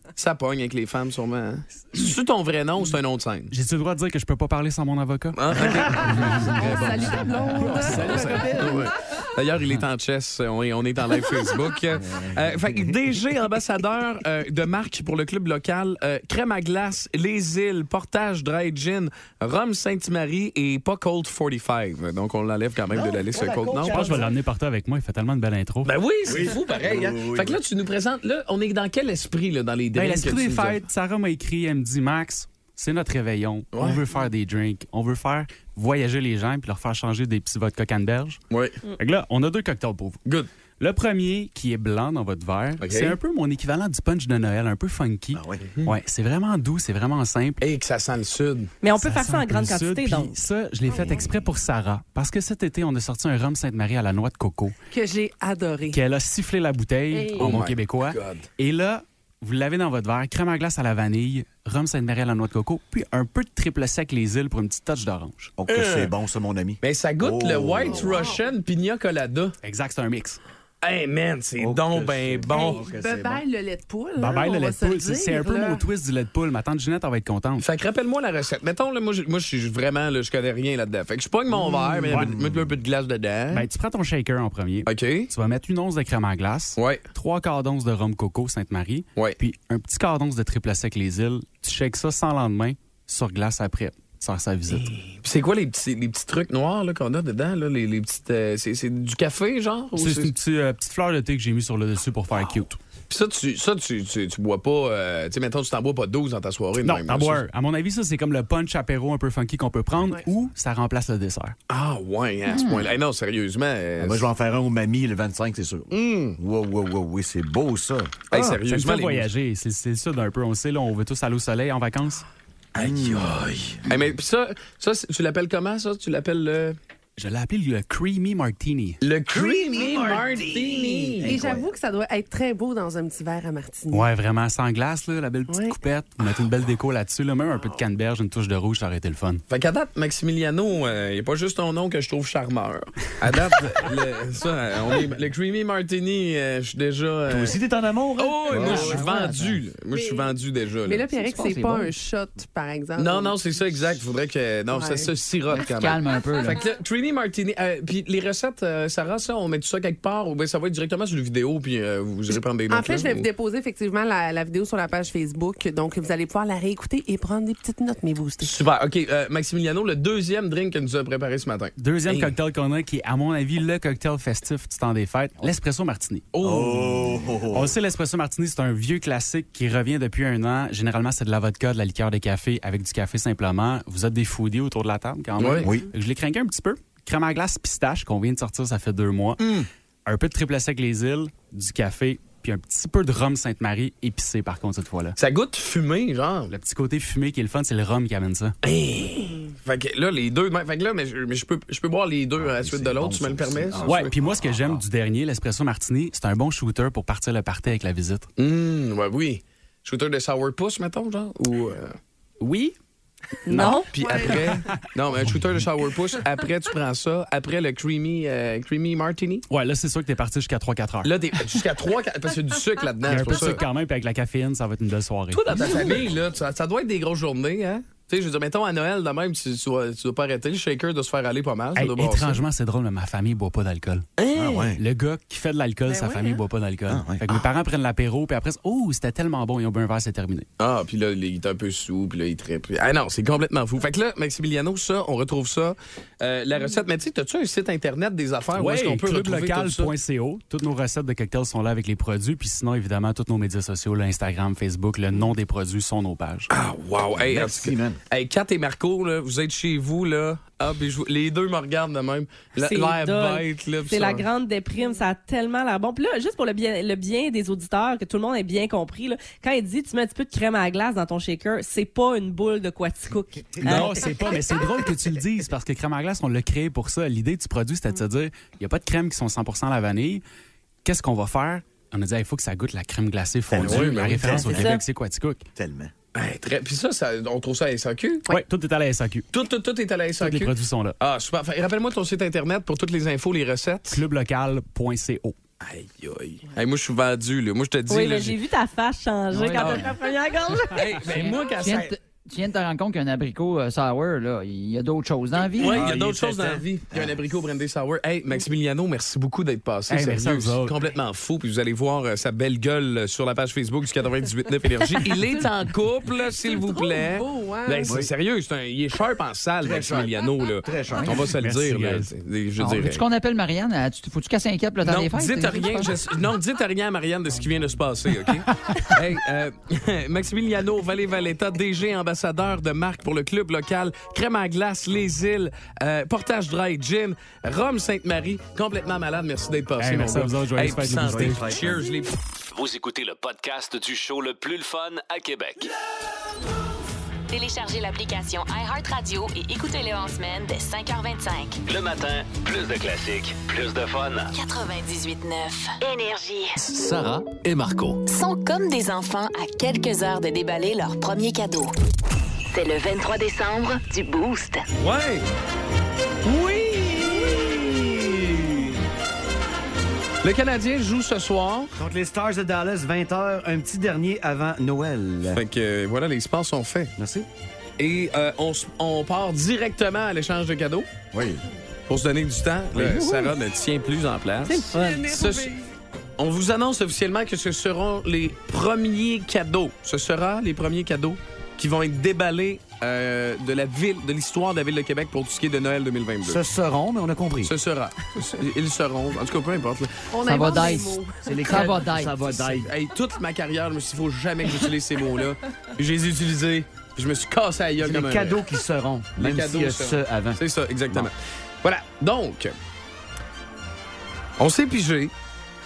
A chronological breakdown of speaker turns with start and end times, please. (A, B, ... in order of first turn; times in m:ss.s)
0:00.2-0:03.5 A
0:03.5-0:08.8 B
0:05.4-0:24.2 A
0:06.2-0:08.9 C
0:12.1-0:12.9 D
0:22.9-0:24.3 D
0:23.9-0:25.9 B
0:25.8-0:30.8 A
0:26.2-0:27.6 D
0:29.9-0:38.4 B
0:33.7-0:34.0 A
0:38.5-0:38.8 A
0:39.0-0:40.2 B
0:40.8-0:47.6 B
0:42.8-0:43.2 A
0:45.3-0:45.7 D
0:47.6-0:48.7 A
0:48.8-0:50.3 E
0:49.0-0:54.8 B
0:50.9-0:51.3 C
0:54.9-0:56.0 C
0:55.9-1:05.5 B
0:57.1-0:57.6 C
0:57.4-0:58.5 A
1:05.6-1:08.3 D
1:05.7-1:06.1 A
1:06.8-1:09.6 A
1:07.8-1:08.5 C
1:09.6-1:10.4 B
1:10.8-1:12.8 A
1:11.6-1:13.4 D
1:12.5-1:15.9 C
1:14.2-1:17.6 B
1:17.6-1:23.6 A
1:21.5-1:22.8 D
1:23.5-1:34.9 B
1:24.9-1:25.3 A
1:26.8-1:27.0 A
1:34.9-1:40.3 A
1:40.0-1:42.8 B
1:43.1-1:47.4 A
1:46.8-1:51.5 B
1:51.7-1:54.3 A
1:52.5-1:52.9 F
1:54.0-1:58.4 D
1:55.9-1:56.4 A
1:58.3-1:59.3 A
1:58.4-2:02.2 B
2:02.8-2:06.8 A
2:02.8-2:03.5 D
2:07.2-2:09.0 B
2:09.0-2:11.4 A
2:09.3-2:10.5 C
2:09.8-2:11.7 D
2:11.2-2:14.1 C
2:13.9-2:19.4 B
2:15.5-2:15.8 C
2:19.5-2:27.6 A
2:27.3-2:29.1 D
2:28.2-2:31.1 A
2:28.5-2:29.5 F
2:29.9-2:33.4 C
2:31.2-2:31.9 F
2:33.0-2:43.3 A
2:34.7-2:35.1 C
2:35.5-2:36.6 F
2:42.3-2:48.6 C
2:48.4-2:52.3 A
2:51.8-2:56.2 B
2:56.3-2:57.2 A
2:56.4-2:57.8 D
2:57.5-3:09.4 B
3:05.4-3:05.7 A
3:05.6-3:05.9 D
3:09.4-3:09.7 A
3:10.0-3:15.2 B
3:15.2-3:16.5 A
3:16.5-3:18.5 B
3:18.6-3:24.1 A
3:22.4-3:24.8 D
3:23.8-3:28.3 B
3:28.4-3:32.0 A
3:33.5-3:33.8 B
3:33.5-3:33.9 E
3:33.5-3:34.7 C
3:33.6-3:39.4 A
3:39.5-3:41.5 B
3:41.0-3:43.6 A
3:43.0-3:45.9 B
3:45.3-3:52.4 A
3:45.6-3:45.9 C
3:51.8-3:54.0 B
3:54.2-3:54.7 A
3:54.3-3:54.8 D
3:54.8-4:00.5 B
3:55.8-3:56.4 C
3:56.9-3:57.4 D
4:00.6-4:09.9 A
4:08.5-4:16.5 B
4:16.5-4:24.2 A
4:17.1-4:18.0 D
4:22.6-4:34.2 E
4:33.6-4:40.2 B
4:33.7-4:34.0 A
4:40.8-4:45.4 B
4:43.5-4:44.8 D
4:43.6-4:44.5 A
4:44.4-4:44.8 E
4:45.6-4:45.9 D
4:46.1-4:48.3 A
4:48.3-4:49.3 B
4:49.3-4:54.0 A
4:50.2-4:50.9 B
4:53.9-4:55.4 B
4:55.6-4:58.4 A
4:57.9-5:00.9 E
4:59.3-4:59.9 F
4:59.6-4:59.9 A
5:00.7-5:01.9 A
5:01.0-5:05.8 F
5:05.6-5:23.0 A
5:05.6-5:07.3 D
5:09.9-5:10.8 B
5:15.2-5:15.5 C
5:16.3-5:18.0 C
5:19.6-5:21.3 D
5:21.2-5:22.1 B
5:22.6-5:25.9 F
5:24.8-5:42.1 A
5:39.8-5:41.5 B
5:40.9-5:41.8 D
5:42.5-5:45.7 G
5:47.3-5:51.6 H
5:51.6-5:54.3 G
5:54.3-5:56.6 H
5:56.6-5:58.0 G
5:58.1-6:01.7 H
6:02.5-6:04.6 H
6:04.8-6:05.2 A
6:06.2-6:08.6 A
6:10.2-6:11.7 A
6:11.8-6:15.4 D
6:15.3-6:16.9 A
6:17.0-6:17.3 D
6:17.8-6:20.9 A
6:21.1-6:21.4 D
6:21.9-6:25.5 A
6:22.8-6:23.4 E
6:24.4-6:25.1 E
6:24.7-6:25.6 C
6:26.2-6:36.4 A
6:36.2-6:37.5 D
6:37.4-6:40.0 A
6:40.1-6:41.4 C
6:40.2-6:42.3 F
6:41.2-6:42.7 D
6:42.3-6:48.4 A
6:47.8-6:51.1 D
6:49.2-6:52.5 A
6:54.4-6:55.1 A